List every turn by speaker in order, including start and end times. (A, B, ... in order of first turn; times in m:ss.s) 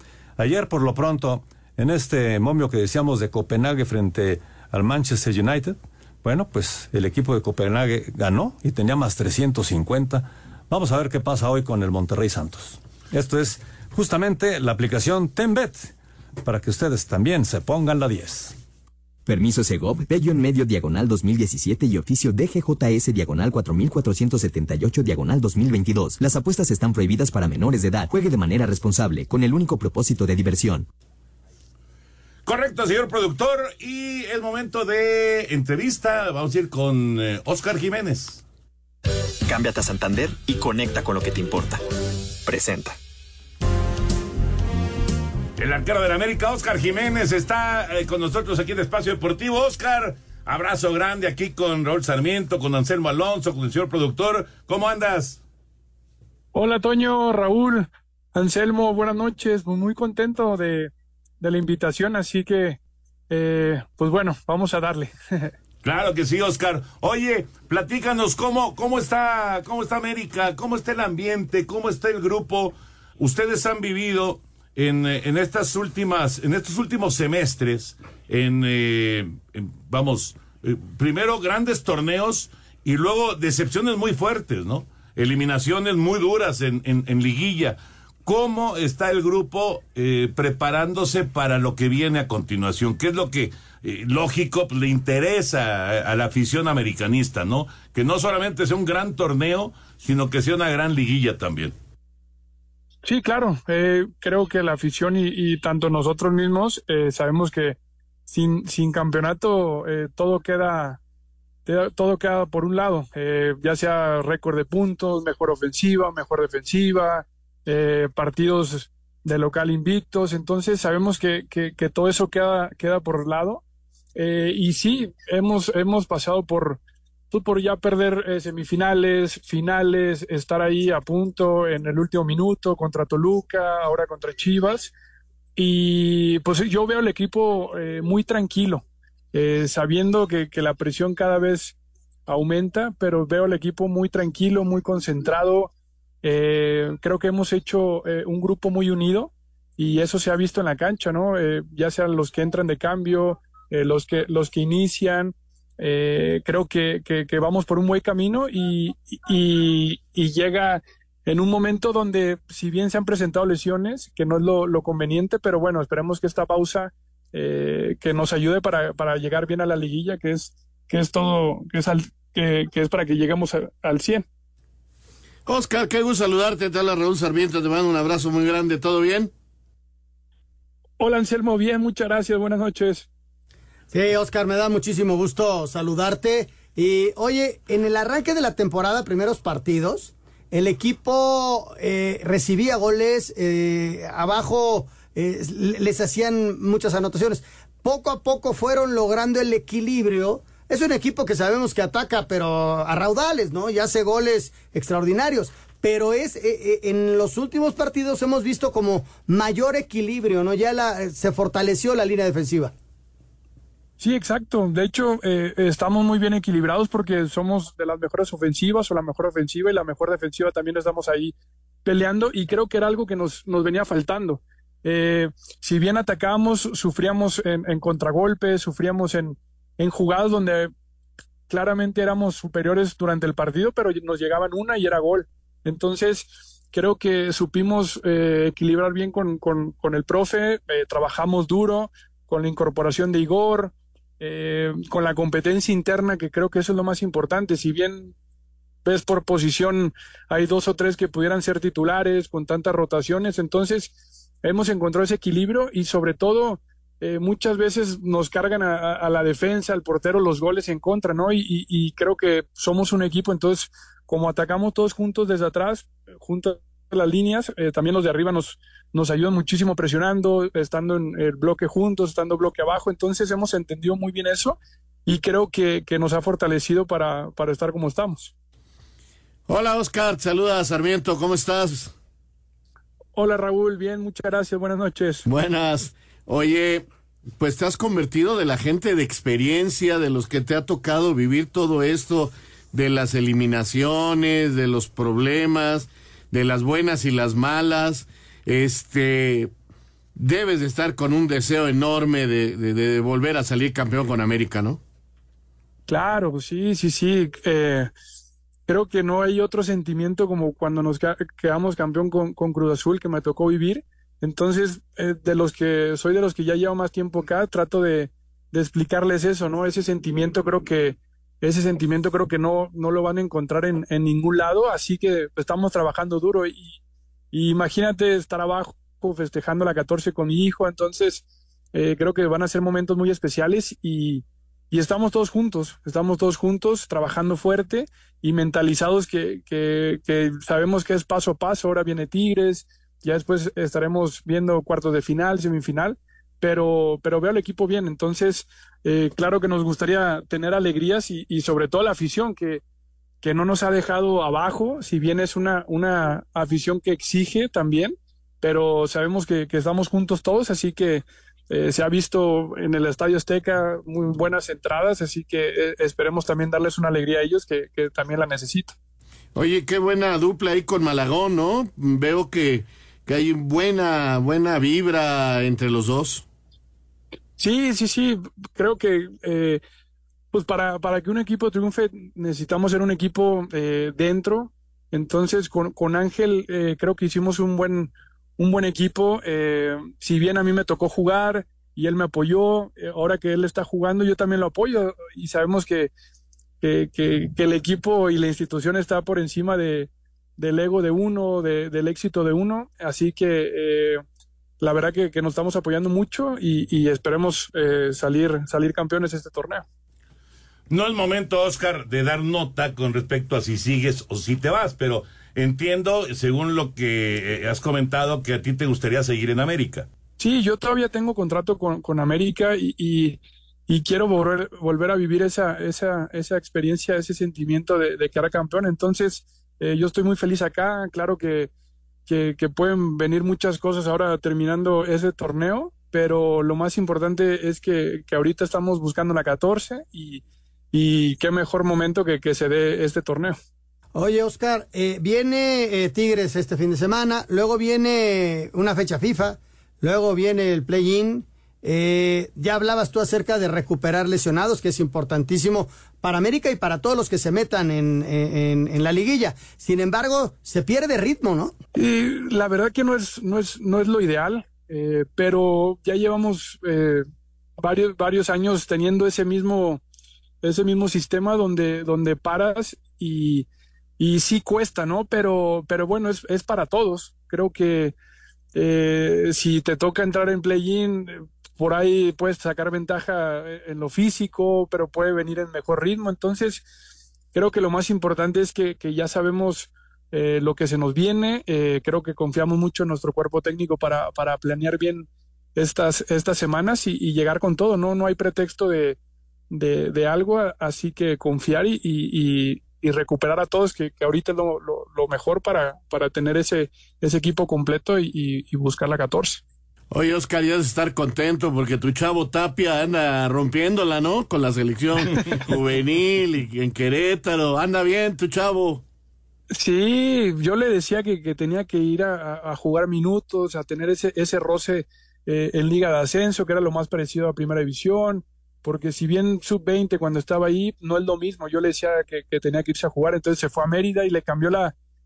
0:00.4-0:15.9 A
0:16.4-0:18.6 A
0:19.3-0:30.9 B
0:32.5-0:38.4 C
0:39.5-0:41.8 D
0:42.4-0:43.0 D
0:45.6-0:55.4 C
0:56.5-1:02.8 E
1:03.3-1:05.5 E
1:05.8-1:41.8 C
1:43.0-1:51.0 E
1:51.7-2:03.6 E
2:04.2-2:06.8 E
2:07.3-2:14.9 E
2:15.6-2:21.8 E
2:22.3-2:25.7 E
2:26.2-2:54.2 E
2:55.5-2:59.3 F
3:01.0-3:03.1 E
3:03.9-3:32.7 G
3:34.0-3:50.7 E
3:51.5-4:08.1 E
4:08.8-4:13.9 E
4:14.4-4:38.3 E
4:39.5-4:41.9 F
4:43.2-4:45.3 E
4:45.3-4:46.9 F
4:47.4-4:59.5 F
5:00.2-5:04.8 F
5:05.9-5:07.9 E
5:08.7-5:26.8 E
5:27.3-5:31.2 E
5:31.7-5:52.6 E
5:53.2-6:08.7 E
6:09.4-6:16.2 F
6:17.4-6:19.6 E
6:20.3-6:35.9 E
6:36.6-6:44.0 E
6:44.6-6:49.6 E
6:50.7-6:59.9 C
7:00.2-7:11.5 E
7:12.1-7:23.4 E
7:24.0-7:41.6 G
7:41.8-7:47.0 E
7:47.6-7:49.8 E
7:50.4-7:53.5 E
7:54.0-7:57.9 E
7:58.6-8:06.6 E
8:07.3-8:19.0 E
8:19.5-8:29.4 E
8:29.9-8:38.8 F
8:39.5-8:54.7 E